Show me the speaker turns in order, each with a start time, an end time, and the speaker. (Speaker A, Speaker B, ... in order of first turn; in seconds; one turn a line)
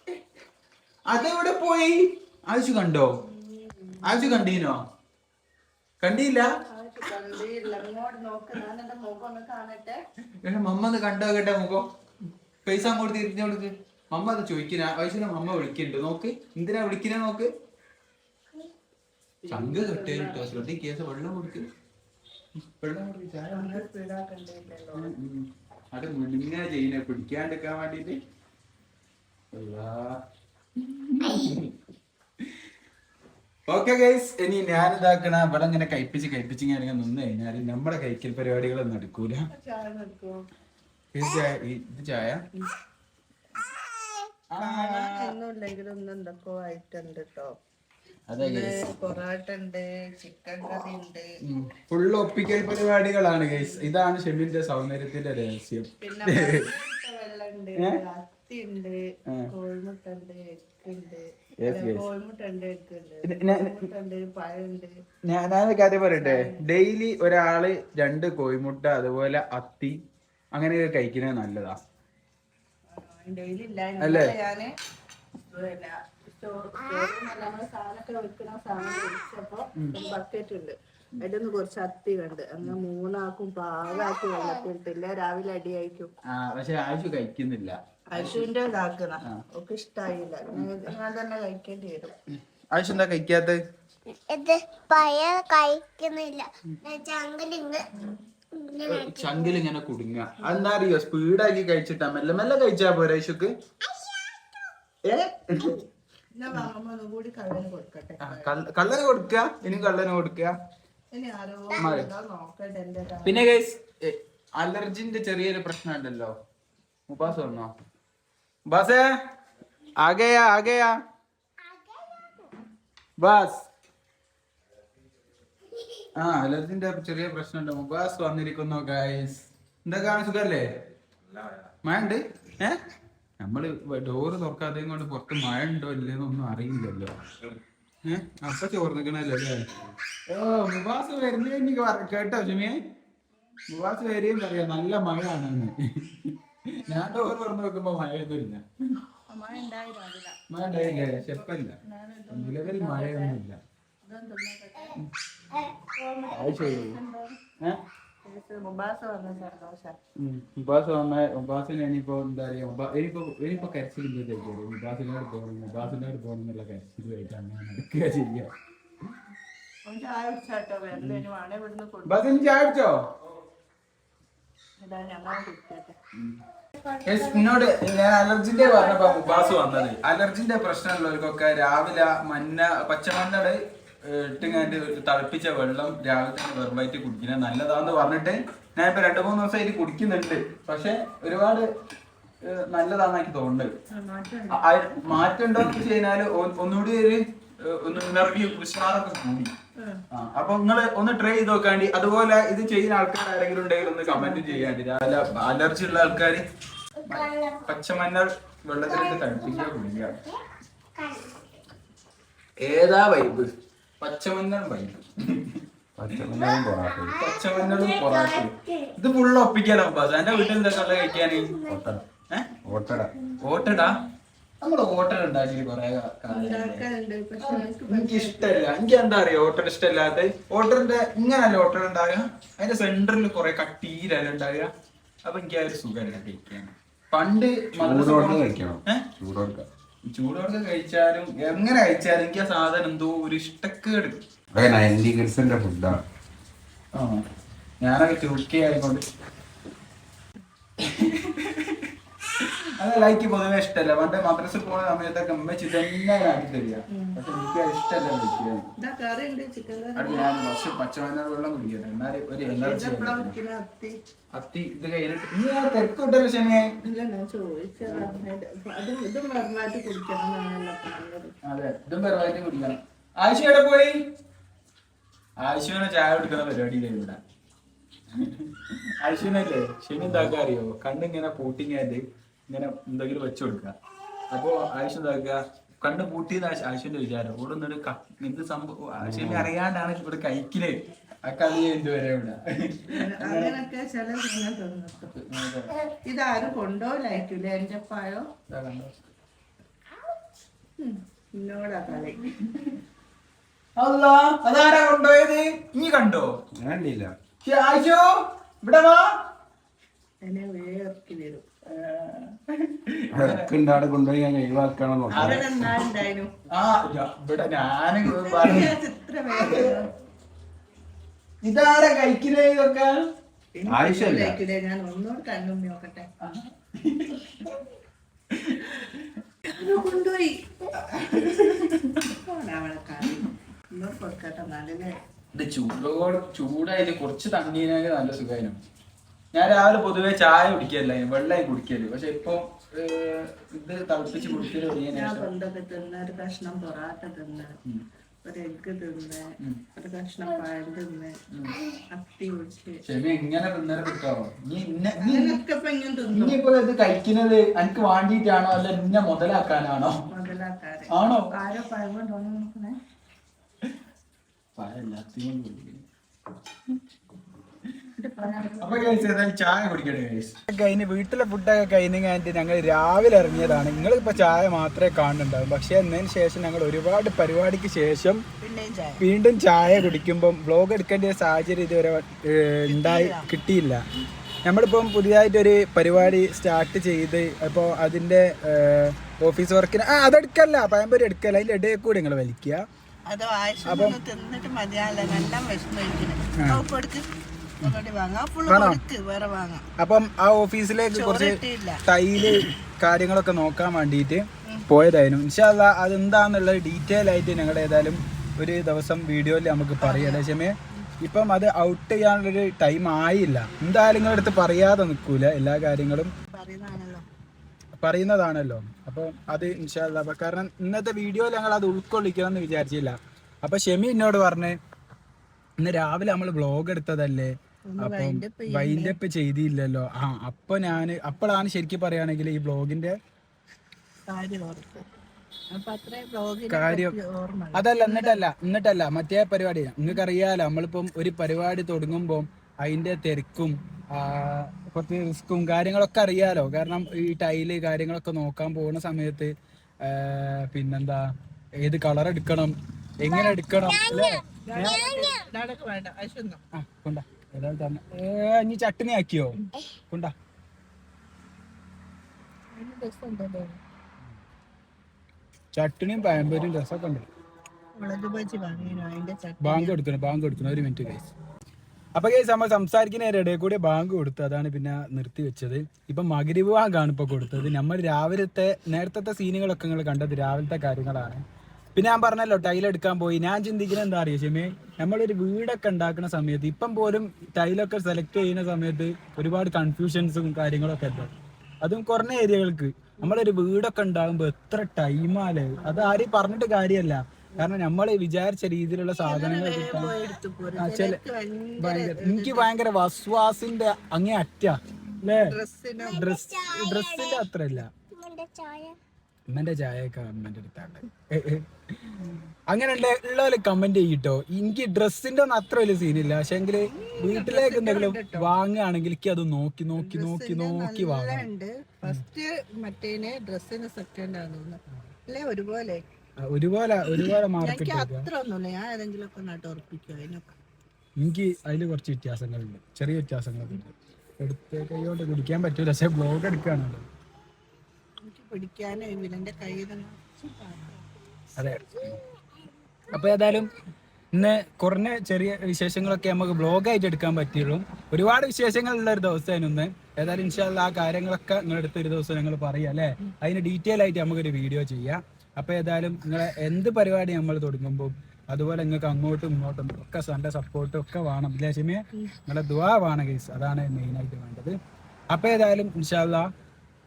Speaker A: 1.1-3.1
Speaker B: 3.2-4.5
Speaker A: 4.0-4.8
Speaker A: 6.0-6.5
Speaker B: 6.7-10.0
Speaker A: 10.4-11.9
Speaker A: 12.6-17.5
Speaker B: 19.4-20.5
Speaker A: 19.5-21.7
Speaker A: 22.8-23.8
Speaker B: 23.5-25.1
Speaker A: 24.9-28.2
Speaker A: 29.5-30.1
Speaker A: 30.8-31.7
Speaker A: 33.7-39.4
Speaker B: 39.5-40.4
Speaker A: 41.1-42.4
Speaker C: 43.7-44.3
Speaker A: 44.5-45.3
Speaker B: 44.6-47.5
Speaker A: 48.3-48.9
Speaker B: 48.4-51.3
Speaker A: 51.4-56.7
Speaker B: 53.5-53.9
Speaker B: 56.0-64.9
Speaker A: 61.6-62.0
Speaker A: 63.2-63.7
Speaker A: 65.3-70.0
Speaker B: 66.1-66.6
Speaker A: 70.5-71.8
Speaker B: 72.9-74.7
Speaker A: 74.0-74.3
Speaker B: 75.5-86.1
Speaker A: 79.8-80.0
Speaker C: 84.1-84.4
Speaker A: 86.2-88.5
Speaker B: 88.1-92.2
Speaker A: 90.5-90.8
Speaker A: 92.7-93.6
Speaker C: 94.1-97.9
Speaker C: 98.5-99.6
Speaker A: 98.8-103.5
Speaker C: 103.8-104.5
Speaker A: 105.0-105.8
Speaker B: 106.3-108.6
Speaker A: 108.2-110.5
Speaker B: 111.1-113.5
Speaker A: 111.8-112.1
Speaker A: 113.2-116.3
Speaker A: 117.1-117.7
Speaker A: 118.7-119.0
Speaker A: 120.0-120.9
Speaker C: 121.6-122.5
Speaker A: 123.2-123.7
Speaker A: 126.2-130.7
Speaker A: 131.8-132.8
Speaker A: 133.4-137.1
Speaker A: 138.1-139.6
Speaker A: 140.3-142.8
Speaker A: 143.7-148.6
Speaker B: 146.8-147.2
Speaker B: 149.3-153.4
Speaker A: 150.5-151.8
Speaker A: 152.3-153.6
Speaker B: 154.0-155.0
Speaker B: 155.8-157.4
Speaker A: 156.3-157.0
Speaker B: 158.2-159.9
Speaker A: 160.2-168.5
Speaker B: 169.8-172.6
Speaker A: 170.9-171.2
Speaker A: 172.1-173.0
Speaker B: 174.8-175.9
Speaker A: 176.1-176.4
Speaker B: 176.8-177.4
Speaker A: 177.0-191.7
Speaker B: 184.4-184.8
Speaker A: 192.4-193.7
Speaker B: 193.9-194.6
Speaker A: 194.5-199.5
Speaker A: 200.1-206.4
Speaker B: 203.8-204.7
Speaker C: 207.0-207.7
Speaker A: 207.1-210.2
Speaker C: 208.9-210.4
Speaker C: 210.9-211.6
Speaker A: 212.6-215.6
Speaker D: 215.9-217.2
Speaker C: 216.4-218.9
Speaker A: 217.2-221.6
Speaker C: 220.3-221.8
Speaker D: 221.7-222.0
Speaker D: 222.6-223.1
Speaker A: 223.4-224.0
Speaker A: 224.6-226.8
Speaker B: 226.3-228.7
Speaker A: 227.4-234.7
Speaker A: 235.2-239.1
Speaker D: 237.8-239.7
Speaker A: 240.1-244.2
Speaker D: 244.5-246.0
Speaker A: 246.9-247.2
Speaker A: 247.8-249.0
Speaker A: 250.8-258.7
Speaker B: 256.9-257.2
Speaker B: 258.8-260.3
Speaker A: 259.9-263.3
Speaker B: 262.5-263.9
Speaker A: 264.3-266.7
Speaker B: 266.8-271.3
Speaker A: 271.4-274.0
Speaker A: 275.4-277.2
Speaker A: 278.2-283.7
Speaker D: 280.0-280.3
Speaker A: 284.3-293.6
Speaker D: 289.0-289.5
Speaker B: 292.9-295.1
Speaker A: 295.1-295.7
Speaker B: 296.1-298.2
Speaker A: 298.5-298.9
Speaker B: 300.8-302.2
Speaker A: 302.2-302.7
Speaker A: 303.8-306.3
Speaker D: 306.5-307.1
Speaker A: 307.4-308.1
Speaker A: 308.6-309.1
Speaker B: 310.2-311.4
Speaker A: 311.7-313.5
Speaker D: 313.1-315.5
Speaker B: 315.1-316.3
Speaker A: 315.1-315.5
Speaker A: 316.5-318.7
Speaker B: 318.1-319.9
Speaker A: 319.3-319.7
Speaker A: 321.4-323.0
Speaker B: 323.5-326.1
Speaker A: 323.7-324.3
Speaker A: 326.2-327.6
Speaker A: 328.3-329.2
Speaker B: 329.5-330.4
Speaker A: 330.8-332.1
Speaker B: 332.2-334.9
Speaker A: 335.3-338.6
Speaker A: 339.3-345.3
Speaker B: 344.2-347.6
Speaker B: 348.2-349.2
Speaker B: 349.7-351.1
Speaker A: 351.3-351.6
Speaker B: 351.9-352.8
Speaker A: 352.8-355.4
Speaker B: 355.0-356.4
Speaker A: 356.1-360.0
Speaker B: 360.1-362.8
Speaker A: 360.9-361.3
Speaker A: 364.6-365.8
Speaker B: 368.0-369.1
Speaker A: 368.6-378.2
Speaker B: 378.4-379.0
Speaker A: 379.0-383.8
Speaker B: 382.7-383.3
Speaker A: 384.4-392.6
Speaker B: 393.1-397.1
Speaker A: 393.6-394.0
Speaker A: 396.4-396.6
Speaker B: 397.6-399.6
Speaker A: 398.5-398.8
Speaker A: 399.8-416.1
Speaker B: 400.9-401.8
Speaker B: 409.8-410.2
Speaker B: 416.3-417.0
Speaker A: 417.8-424.6
Speaker A: 425.6-432.9
Speaker B: 427.7-428.9
Speaker B: 434.1-434.9
Speaker B: 435.5-438.2
Speaker A: 436.5-436.9
Speaker A: 437.5-451.1
Speaker A: 451.6-454.9
Speaker C: 453.0-455.3
Speaker B: 454.4-456.4
Speaker A: 456.5-460.1
Speaker B: 462.5-463.6
Speaker A: 465.5-467.0
Speaker B: 467.8-469.8
Speaker A: 469.4-471.1
Speaker A: 471.9-481.2
Speaker A: 481.7-491.1
Speaker A: 491.6-499.9
Speaker B: 499.0-502.5
Speaker A: 500.6-501.0
Speaker A: 501.6-505.3
Speaker B: 505.1-506.0
Speaker A: 505.9-507.7
Speaker C: 505.9-507.2
Speaker C: 507.9-508.8
Speaker A: 509.3-512.0
Speaker A: 512.5-521.2
Speaker B: 516.7-518.3
Speaker B: 519.8-525.8
Speaker A: 526.3-528.1
Speaker B: 526.9-530.3
Speaker A: 531.0-533.7
Speaker A: 534.2-536.8
Speaker B: 538.0-540.8
Speaker A: 541.4-542.0
Speaker A: 542.9-543.5
Speaker A: 544.1-564.5
Speaker A: 565.1-566.3